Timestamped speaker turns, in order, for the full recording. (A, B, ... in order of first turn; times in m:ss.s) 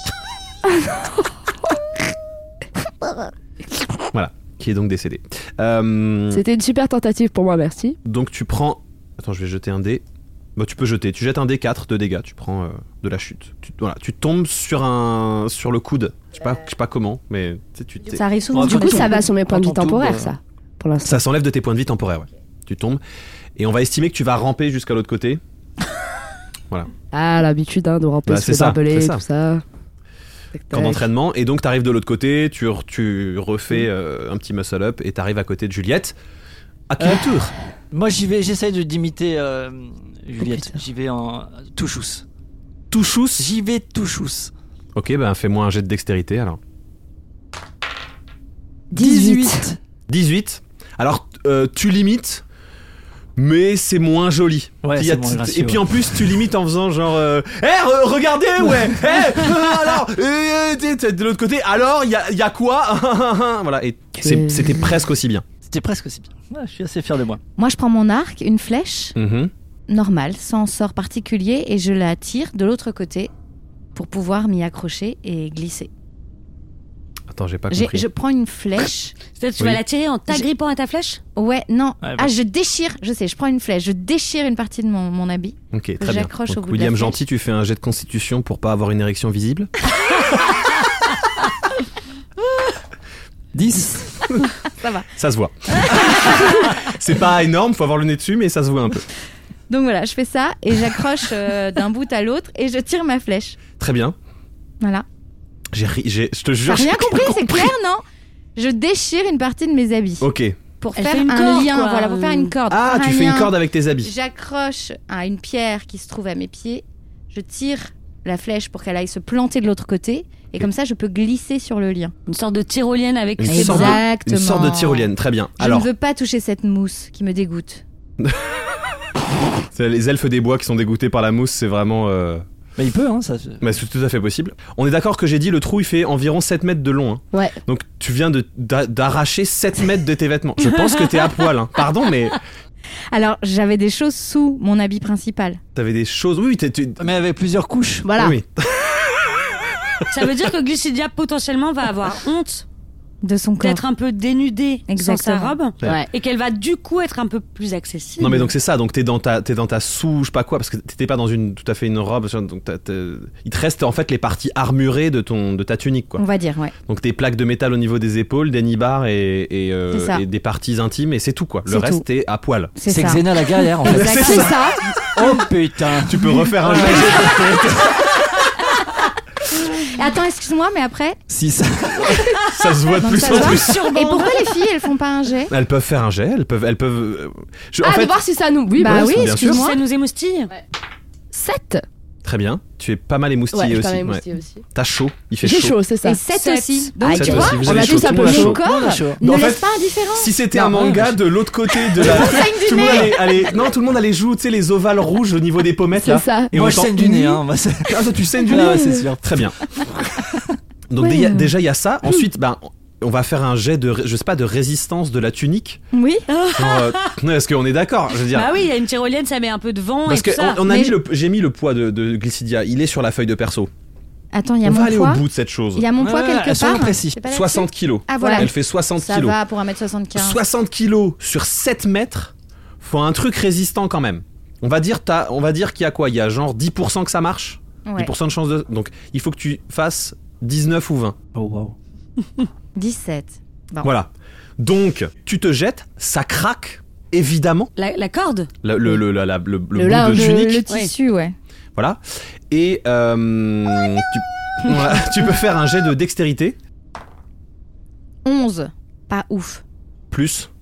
0:00.6-0:01.7 A
0:04.1-0:06.4 B
0:06.3-0:08.0 A
0:08.0-0:10.0 B
0:10.6-0:18.2 B
0:18.1-0:19.2 C
0:18.5-0:20.3 D
0:18.6-0:21.2 A
0:21.0-0:23.0 B
0:23.6-0:25.4 B
0:27.1-0:29.6 A
0:28.3-0:29.2 B
0:30.6-0:31.0 A
0:30.7-0:36.2 B
0:36.9-0:37.5 B
0:37.9-0:42.2 D
0:40.4-0:40.8 A
0:42.9-0:43.5 B
0:43.4-0:44.5 D
0:45.0-0:46.6 B
0:48.9-0:49.7 A
0:49.0-0:49.8 D
0:50.1-0:52.4 B
0:53.4-1:05.5 B
0:54.8-0:56.3 D
1:04.2-1:05.0 A
1:05.6-1:07.4 D
1:07.6-1:09.2 C
1:09.2-1:09.5 B
1:09.9-1:13.3 C
1:14.0-1:15.9 C
1:17.3-1:18.1 B
1:17.7-1:19.2 C
1:19.3-1:21.2 E
1:21.4-1:27.2 C
1:22.0-1:22.3 D
1:25.7-1:29.7 B
1:33.5-1:34.3 D
1:34.8-1:35.1 C
1:35.2-1:39.1 B
1:36.3-1:36.6 C
1:39.7-1:43.6 C
1:43.8-1:44.2 B
1:44.8-1:45.1 C
1:45.7-1:47.7 B
1:46.6-1:48.0 C
1:48.6-1:50.3 C
1:50.2-1:50.6 B
1:50.8-1:53.5 C
1:51.0-1:52.5 E
1:52.7-1:54.1 B
1:54.0-2:02.1 C
2:02.3-2:04.0 E
2:03.4-2:05.9 B
2:03.5-2:05.1 C
2:05.6-2:07.8 C
2:08.2-2:08.5 B
2:09.7-2:12.4 B
2:12.8-2:13.6 D
2:13.6-2:22.4 B
2:23.1-2:25.6 C
2:25.8-2:27.0 B
2:27.0-2:28.1 D
2:28.0-2:28.4 A
2:28.2-2:29.4 B
2:30.0-2:30.3 B
2:30.1-2:32.6 E
2:33.2-2:33.8 C
2:33.6-2:38.4 E
2:34.9-2:35.6 C
2:35.8-2:36.1 A
2:38.2-2:46.2 B
2:46.2-2:46.7 C
2:46.9-2:52.7 B
2:49.9-2:50.2 C
2:51.7-2:52.0 C
2:52.8-2:55.4 C
2:52.9-2:54.6 D
2:53.8-2:54.6 B
2:55.2-2:58.1 D
2:56.0-2:57.7 B
2:59.6-3:01.2 C
3:01.3-3:02.4 D
3:02.5-3:03.9 B
3:03.0-3:05.5 C
3:03.2-3:03.6 D
3:03.5-3:04.7 E
3:05.5-3:08.2 B
3:07.8-3:09.2 A
3:08.8-3:09.8 C
3:08.8-3:09.7 B
3:09.2-3:10.5 E
3:11.3-3:11.8 A
3:12.2-3:15.8 B
3:13.5-3:14.6 A
3:15.4-3:16.2 A
3:16.0-3:20.4 C
3:16.3-3:17.6 E
3:17.0-3:18.6 A
3:17.0-3:18.6 B
3:17.8-3:19.2 D
3:19.2-3:27.0 B
3:20.6-3:21.2 D
3:21.9-3:23.6 C
3:26.0-3:27.4 A
3:26.5-3:30.6 D
3:27.9-3:29.6 B
3:28.5-3:29.1 A
3:30.9-3:35.8 B
3:31.0-3:31.4 A
3:35.9-3:36.3 C
3:36.3-3:37.2 E
3:36.5-3:38.5 B
3:38.2-3:40.7 E
3:40.1-3:43.7 B
3:40.7-3:41.0 C
3:44.3-3:45.2 C
3:44.6-3:45.9 B
3:45.8-3:50.4 C
3:46.0-3:47.2 D
3:47.3-3:49.4 B
3:50.2-4:01.2 B
3:57.9-3:58.1 C
4:01.3-4:01.8 D
4:02.8-4:03.9 C
4:03.8-4:07.7 B
4:07.8-4:08.5 E
4:08.6-4:10.5 B
4:09.8-4:10.6 A
4:10.0-4:11.4 C
4:11.8-4:16.6 B
4:18.2-4:19.6 C
4:20.1-4:20.5 B